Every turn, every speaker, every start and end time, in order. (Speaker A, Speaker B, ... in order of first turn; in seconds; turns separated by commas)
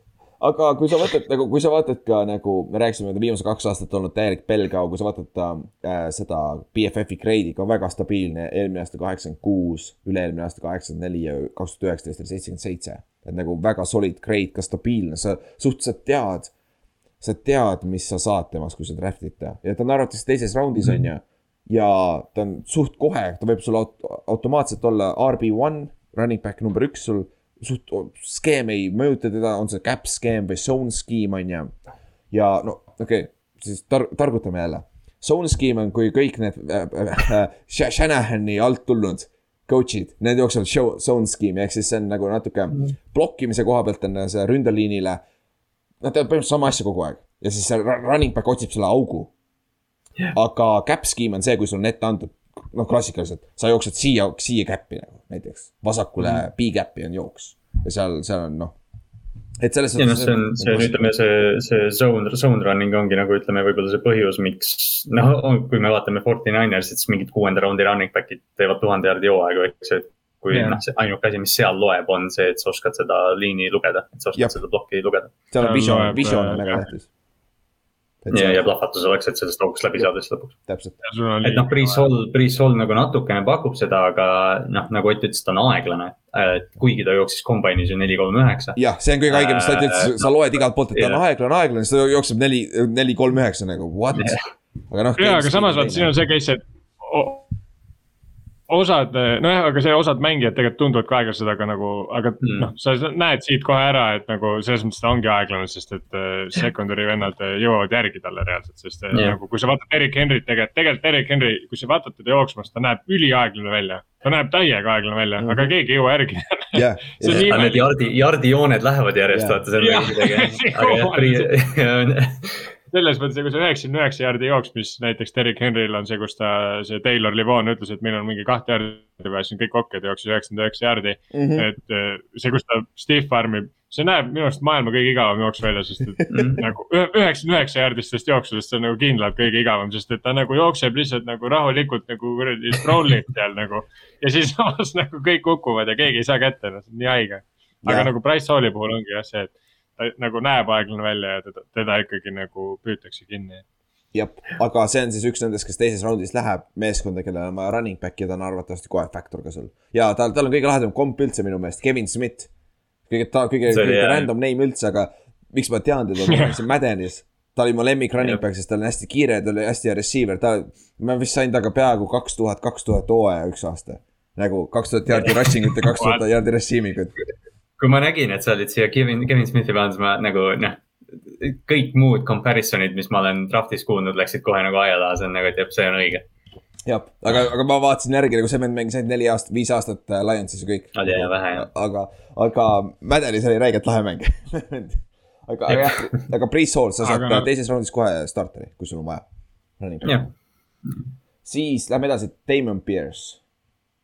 Speaker A: 0.4-16.5, Speaker A: 17.2-31.7, Speaker A: 32.3-45.2, Speaker A: 46.0-49.3, Speaker A: 50.3-58.8, Speaker A: 59.6-61.0, Speaker B: 60.0-75.3, Speaker A: 70.5-70.8, Speaker A: 75.5-77.1, Speaker C: 75.6-76.9, Speaker A: 78.2-78.6, Speaker B: 78.3-80.6, Speaker A: 80.7-81.0, Speaker C: 81.0-82.1, Speaker B: 81.4-91.2, Speaker A: 88.8-96.1, Speaker B: 94.1-94.4, Speaker C: 95.2-97.5, Speaker C: 98.7-118.1, Speaker B: 102.4-102.7, Speaker B: 109.1-109.4, Speaker A: 115.4-115.7, Speaker A: 116.7-117.5, Speaker B: 117.2-122.7, Speaker A: 119.3-119.6, Speaker C: 119.8-121.5, Speaker C: 122.9-153.6, Speaker A: 131.3-131.7, Speaker B: 136.3-136.6, Speaker A: 147.8-148.1, Speaker A: 154.1-162.5, Speaker A: 163.1-177.2, Speaker B: 163.7-164.3, Speaker C: 166.3-166.5, Speaker B: 175.1-175.7, Speaker C: 176.0-176.2, Speaker B: 177.8-186.2, Speaker A: 186.8-199.2, Speaker B: 190.9-191.7, Speaker B: 195.7-196.3, Speaker C: 197.0-197.5, Speaker A: 199.8-200.2, Speaker B: 200.0-200.3, Speaker A: 201.4-203.4